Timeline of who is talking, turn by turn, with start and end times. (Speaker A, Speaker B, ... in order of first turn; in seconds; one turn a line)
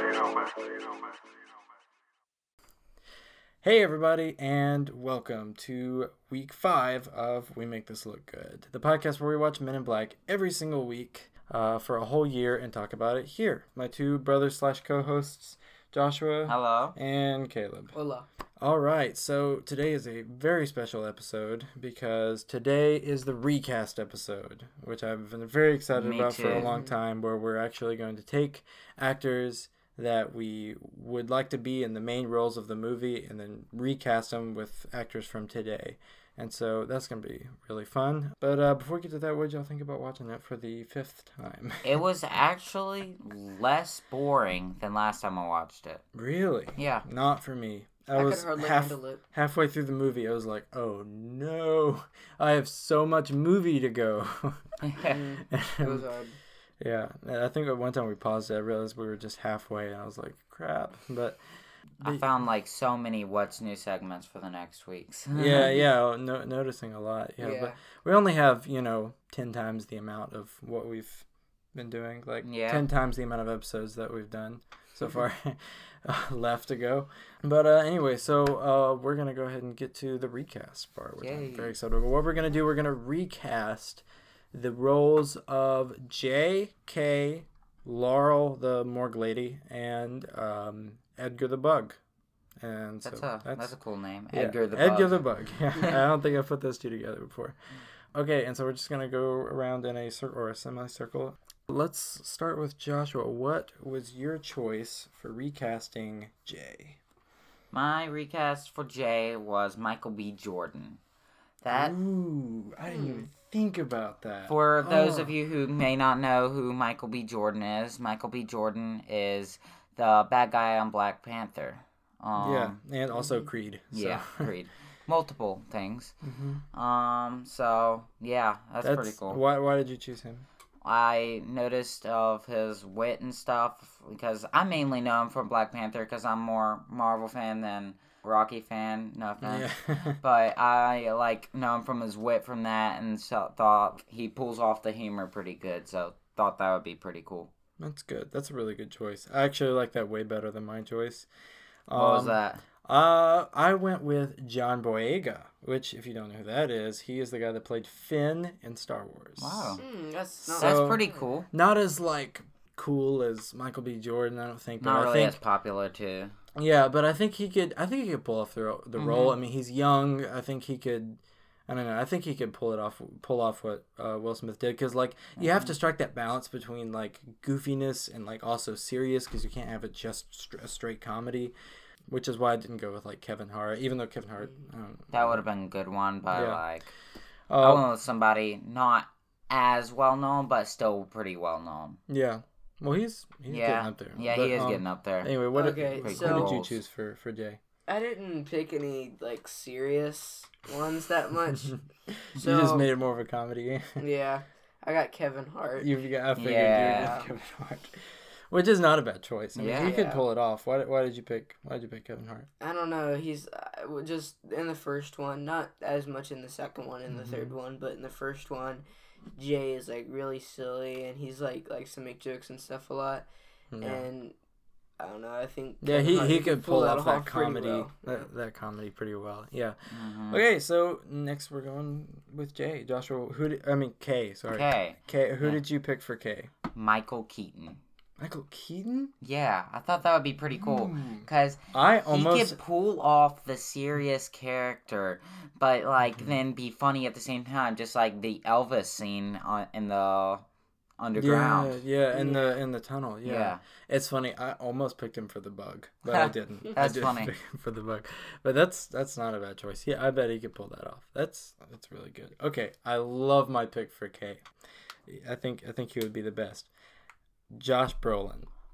Speaker A: 3.6-17.9
Speaker B: 16.5-16.9
Speaker C: 17.9-18.3
Speaker A: 18.6-41.9
Speaker B: 25.9-26.7
Speaker C: 26.5-26.9
Speaker B: 41.8-46.0
Speaker A: 46.1-54.6
Speaker B: 46.8-47.1
Speaker C: 48.1-49.2
Speaker B: 54.9-55.2
Speaker C: 55.0-56.4
Speaker A: 55.5-56.1
Speaker A: 56.8-61.4
Speaker A: 62.0-62.3
Speaker B: 62.0-65.8
Speaker A: 65.3-92.0
Speaker C: 67.4-67.8
Speaker B: 72.4-72.8
Speaker B: 81.2-81.7
Speaker A: 92.6-93.7
Speaker B: 93.0-95.2
Speaker A: 94.3-97.5
Speaker A: 98.1-107.0
Speaker B: 107.7-111.0
Speaker B: 111.6-112.0
Speaker A: 111.7-115.4
Speaker C: 112.9-113.3
Speaker B: 114.5-122.8
Speaker A: 122.4-124.5
Speaker C: 123.1-123.5
Speaker B: 123.9-126.1
Speaker A: 126.2-126.6
Speaker B: 126.7-129.4
Speaker A: 128.8-130.5
Speaker B: 130.8-147.5
Speaker A: 139.4-140.2
Speaker A: 147.8-151.3
Speaker A: 151.9-159.8
Speaker B: 151.9-152.6
Speaker B: 159.4-159.8
Speaker C: 159.8-161.1
Speaker A: 160.5-165.4
Speaker B: 160.6-161.5
Speaker B: 164.8-166.3
Speaker A: 166.6-181.5
Speaker B: 169.0-169.4
Speaker B: 175.4-175.7
Speaker A: 182.1-185.4
Speaker B: 185.1-186.9
Speaker A: 186.3-186.6
Speaker A: 187.5-187.9
Speaker B: 187.6-192.0
Speaker A: 192.1-197.6
Speaker B: 193.5-195.3
Speaker C: 195.5-196.6
Speaker B: 196.0-196.8
Speaker C: 197.9-201.7
Speaker A: 202.4-204.0
Speaker C: 202.4-202.9
Speaker C: 204.0-205.9
Speaker A: 205.8-208.0
Speaker B: 206.4-207.2
Speaker C: 206.9-207.3
Speaker A: 208.5-212.5
Speaker B: 209.6-210.0
Speaker C: 209.7-210.2
Speaker C: 212.6-218.8
Speaker A: 217.1-217.6
Speaker C: 219.4-223.3
Speaker A: 223.7-224.1
Speaker C: 223.8-224.3
Speaker C: 225.0-228.3
Speaker A: 225.8-236.5
Speaker B: 229.9-230.4
Speaker B: 234.5-235.6
Speaker B: 236.7-237.8
Speaker A: 238.2-239.1
Speaker B: 239.2-250.4
Speaker A: 240.6-242.6
Speaker B: 251.0-251.8
Speaker A: 251.2-264.4
Speaker C: 252.1-252.5
Speaker B: 253.2-253.6
Speaker B: 256.1-257.3
Speaker A: 265.1-266.7
Speaker A: 267.5-268.5